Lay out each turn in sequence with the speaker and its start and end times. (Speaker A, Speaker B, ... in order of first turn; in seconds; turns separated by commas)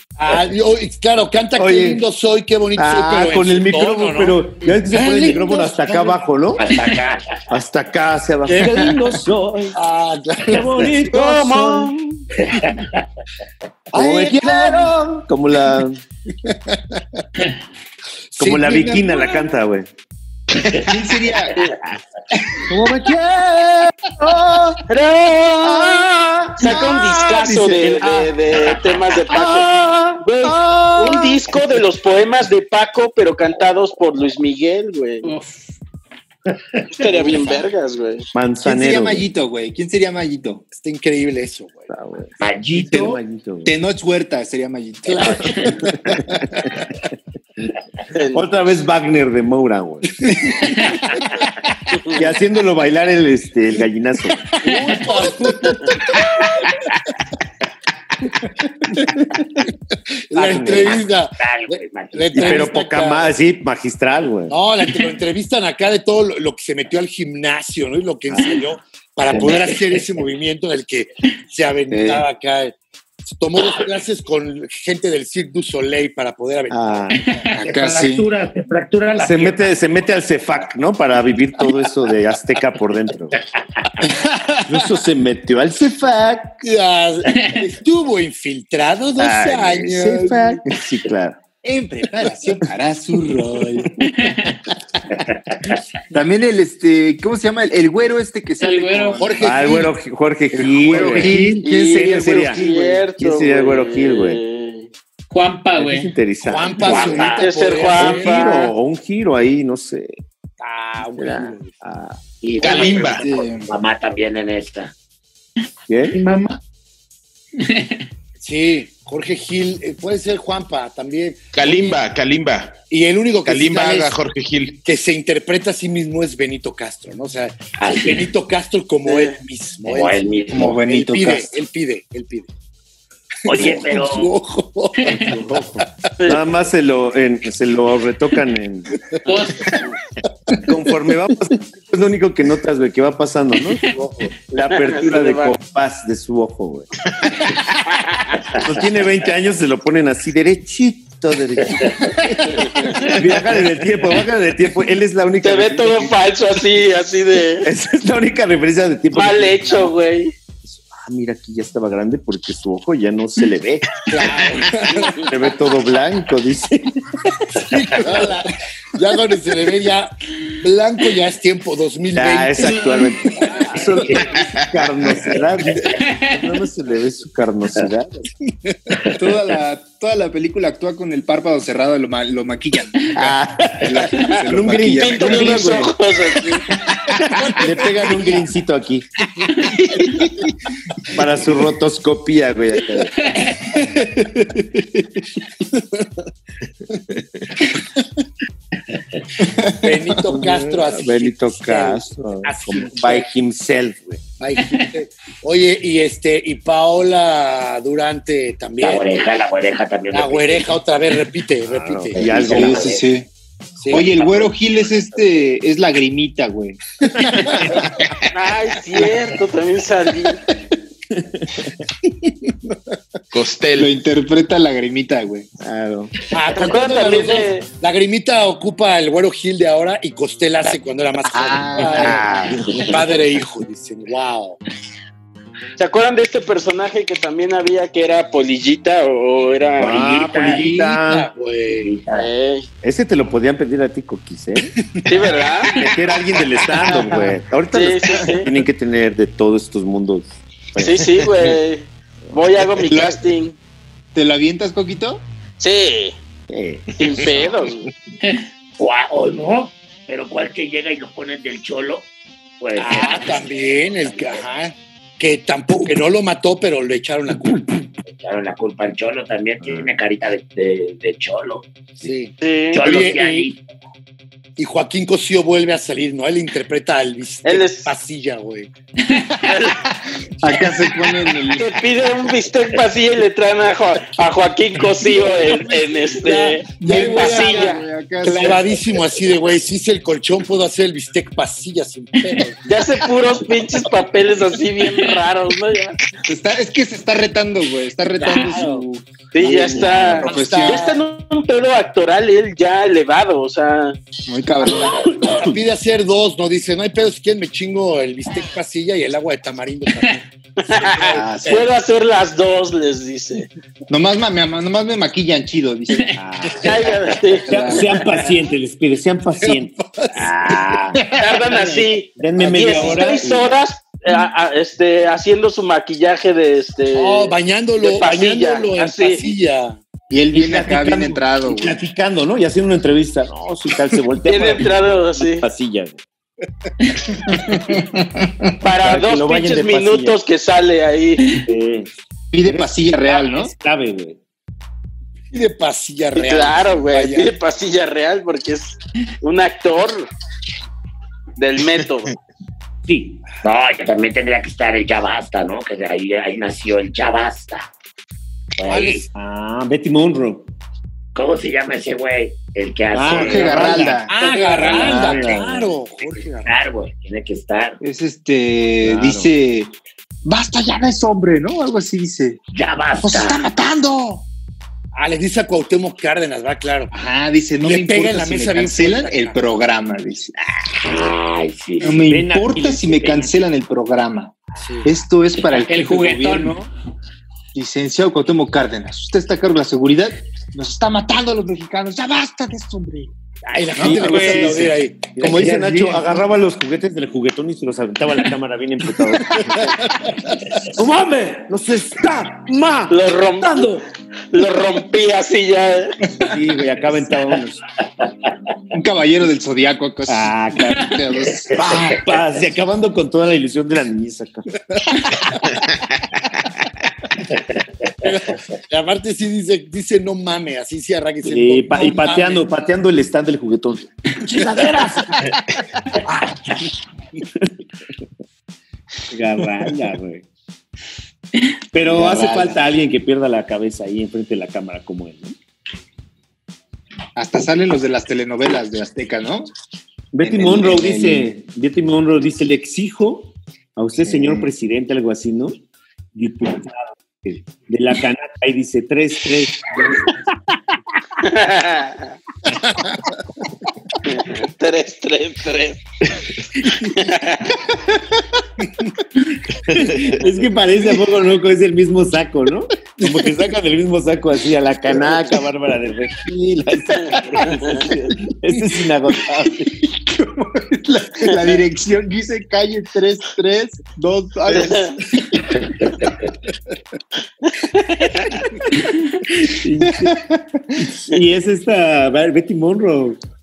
Speaker A: 0.2-6.2, Speaker B: 1.6-2.0, Speaker B: 2.8-6.7, Speaker C: 6.6-7.4, Speaker B: 7.5-9.8, Speaker A: 9.7-10.9, Speaker B: 10.4-11.9, Speaker D: 11.1-12.2, Speaker C: 12.5-13.0, Speaker A: 13.9-14.9, Speaker B: 13.9-16.0, Speaker A: 16.4-17.2, Speaker A: 18.3-19.2, Speaker B: 18.4-19.9, Speaker E: 20.8-21.6, Speaker B: 22.6-24.8, Speaker D: 24.9-35.3, Speaker B: 25.6-31.4, Speaker F: 35.2-35.7, Speaker D: 36.9-38.2, Speaker B: 38.3-39.3, Speaker E: 38.6-40.6, Speaker A: 40.7-41.9, Speaker B: 41.9-43.7, Speaker C: 42.4-43.2, Speaker E: 43.6-45.6, Speaker A: 45.1-46.6, Speaker C: 45.2-45.5, Speaker B: 46.0-46.7, Speaker D: 48.1-48.4, Speaker B: 48.3-50.5, Speaker D: 51.9-52.2, Speaker B: 52.1-54.5, Speaker A: 54.6-56.7, Speaker A: 60.3-63.3, Speaker B: 60.3-61.0, Speaker C: 60.5-62.7, Speaker B: 62.3-64.5, Speaker A: 64.5-72.8, Speaker B: 68.3-68.5, Speaker B: 69.3-69.7, Speaker A: 73.3-77.1, Speaker B: 76.7-77.3, Speaker F: 77.2-77.5, Speaker E: 77.5-78.3, Speaker C: 77.6-79.7, Speaker B: 79.2-83.4, Speaker E: 84.0-84.7, Speaker B: 84.7-86.6, Speaker A: 86.6-90.6, Speaker F: 87.3-87.6, Speaker B: 89.2-91.4, Speaker E: 91.6-93.9, Speaker F: 94.0-94.6, Speaker C: 95.5-95.8, Speaker E: 96.1-99.5, Speaker F: 98.6-99.2, Speaker A: 99.2-99.9, Speaker B: 99.4-104.4, Speaker E: 100.5-103.0, Speaker A: 100.9-101.3, Speaker D: 101.6-104.9, Speaker F: 105.3-106.1, Speaker B: 105.7-107.3, Speaker A: 106.4-108.7, Speaker C: 106.8-107.5, Speaker D: 107.4-108.7, Speaker B: 107.9-110.1, Speaker A: 110.6-111.7, Speaker B: 111.1-112.2, Speaker C: 112.4-114.9, Speaker G: 112.6-113.3, Speaker E: 112.7-113.7, Speaker B: 115.9-116.2, Speaker C: 116.1-116.6, Speaker F: 117.6-118.0, Speaker A: 118.4-122.0, Speaker G: 121.5-122.8, Speaker A: 122.9-124.1, Speaker G: 123.4-124.8, Speaker A: 124.8-132.5, Speaker C: 127.8-128.3, Speaker D: 129.0-129.4, Speaker C: 129.8-130.8, Speaker E: 130.5-131.5, Speaker C: 133.4-134.3, Speaker A: 133.5-135.8, Speaker F: 135.0-135.4, Speaker B: 135.1-138.9, Speaker D: 136.2-136.4, Speaker F: 139.2-139.8, Speaker D: 139.6-139.9, Speaker B: 140.6-146.9, Speaker D: 144.7-145.6, Speaker D: 147.9-148.3, Speaker B: 148.5-156.2, Speaker D: 152.7-153.2, Speaker D: 155.4-157.7, Speaker B: 157.6-159.9, Speaker D: 159.1-160.3, Speaker B: 160.6-163.9, Speaker A: 164.1-165.3, Speaker D: 165.0-165.3, Speaker B: 165.2-167.0, Speaker A: 167.6-174.2, Speaker B: 172.1-178.3, Speaker F: 172.7-173.1, Speaker F: 175.8-176.3, Speaker E: 179.1-185.8, Speaker B: 183.1-185.9, Speaker D: 184.9-186.7, Speaker B: 187.4-189.1, Speaker B: 191.1-193.3, Speaker F: 193.2-193.7, Speaker E: 194.0-194.3, Speaker E: 199.4-199.9, Speaker A: 199.7-203.3, Speaker B: 200.2-204.2, Speaker A: 204.4-209.1, Speaker C: 208.8-210.8, Speaker A: 210.1-212.7, Speaker B: 211.6-213.0, Speaker C: 212.1-213.0, Speaker E: 212.4-213.3, Speaker A: 213.8-214.2, Speaker E: 213.9-217.6, Speaker D: 218.3-220.4, Speaker B: 221.1-221.7, Speaker G: 223.3-223.9, Speaker E: 223.8-225.5, Speaker B: 225.6-226.1, Speaker A: 226.3-234.6, Speaker D: 226.5-227.7, Speaker E: 231.3-232.3, Speaker B: 231.8-232.9, Speaker C: 232.7-232.9, Speaker D: 235.8-240.0, Speaker B: 239.8-241.3, Speaker C: 239.8-240.7, Speaker A: 240.4-241.9, Speaker C: 241.7-242.3, Speaker D: 242.1-242.7, Speaker B: 242.8-244.8, Speaker D: 245.1-245.8, Speaker B: 245.7-251.3, Speaker D: 247.7-248.5, Speaker D: 250.8-253.6, Speaker E: 252.9-253.2, Speaker E: 254.1-255.2, Speaker D: 255.6-256.1, Speaker B: 256.5-257.6, Speaker D: 257.0-257.9, Speaker C: 258.8-262.1, Speaker C: 262.6-263.5, Speaker A: 262.8-267.8, Speaker C: 264.1-264.4, Speaker C: 268.1-271.7, Speaker B: 269.6-269.9, Speaker A: 272.0-273.5, Speaker D: 272.4-272.8, Speaker C: 272.7-273.6, Speaker A: 274.6-278.7, Speaker D: 277.4-277.9, Speaker F: 279.0-279.7, Speaker D: 279.4-279.8, Speaker E: 280.4-281.8, Speaker D: 281.5-287.8, Speaker A: 285.2-292.6, Speaker E: 286.6-288.8, Speaker D: 292.6-296.0, Speaker E: 296.3-301.0, Speaker D: 299.3-304.0, Speaker A: 299.4-301.0, Speaker E: 304.3-305.1, Speaker A: 304.7-311.6, Speaker B: 305.2-305.5, Speaker D: 310.6-313.5, Speaker E: 311.0-311.7, Speaker E: 313.9-316.1, Speaker B: 316.1-321.0, Speaker D: 316.6-317.9, Speaker E: 317.3-318.0, Speaker A: 319.4-320.7, Speaker D: 321.1-329.3, Speaker B: 322.1-323.6, Speaker A: 326.9-329.8, Speaker E: 330.1-331.8, Speaker B: 330.3-336.0, Speaker D: 334.2-335.4, Speaker F: 336.9-337.1, Speaker E: 337.3-338.5, Speaker D: 338.6-341.3, Speaker B: 338.8-340.2, Speaker B: 341.4-341.9, Speaker E: 342.3-343.5, Speaker B: 342.4-344.2, Speaker A: 345.3-347.3, Speaker D: 346.1-350.1, Speaker D: 351.4-352.1, Speaker B: 352.9-353.2, Speaker C: 353.4-357.7, Speaker C: 358.6-359.0, Speaker A: 358.6-359.1, Speaker B: 359.1-360.5, Speaker C: 361.1-365.1, Speaker B: 362.9-365.7, Speaker E: 363.1-364.1, Speaker A: 364.1-366.6, Speaker C: 366.4-367.8, Speaker E: 367.8-369.7, Speaker B: 368.8-369.3, Speaker E: 370.2-372.4, Speaker C: 372.5-373.4, Speaker E: 373.0-374.2, Speaker A: 374.9-376.9, Speaker E: 376.9-380.3, Speaker A: 377.6-379.4, Speaker C: 380.7-382.0, Speaker E: 381.8-386.7, Speaker B: 381.8-383.4, Speaker A: 384.6-384.9, Speaker F: 385.5-386.6, Speaker E: 387.5-393.1, Speaker A: 393.5-396.0, Speaker E: 393.8-394.7, Speaker B: 393.8-399.9, Speaker A: 399.6-400.8, Speaker B: 400.6-403.8, Speaker D: 402.9-405.9, Speaker B: 406.2-407.6, Speaker E: 408.7-412.0, Speaker B: 410.1-414.5, Speaker A: 418.0-422.4, Speaker B: 421.2-425.1, Speaker A: 424.4-425.0, Speaker B: 429.1-430.2, Speaker B: 431.7-435.4, Speaker E: 431.9-432.6, Speaker E: 437.1-439.5, Speaker B: 440.1-445.6, Speaker E: 440.2-441.3, Speaker E: 444.1-444.5, Speaker B: 446.1-450.1, Speaker D: 451.2-452.1, Speaker D: 454.0-455.8, Speaker D: 456.8-457.6, Speaker B: 459.6-469.8, Speaker D: 467.5-467.9, Speaker E: 469.8-475.6, Speaker D: 474.5-475.0, Speaker D: 477.4-478.4, Speaker B: 479.2-480.2, Speaker E: 479.9-480.2, Speaker B: 480.9-483.2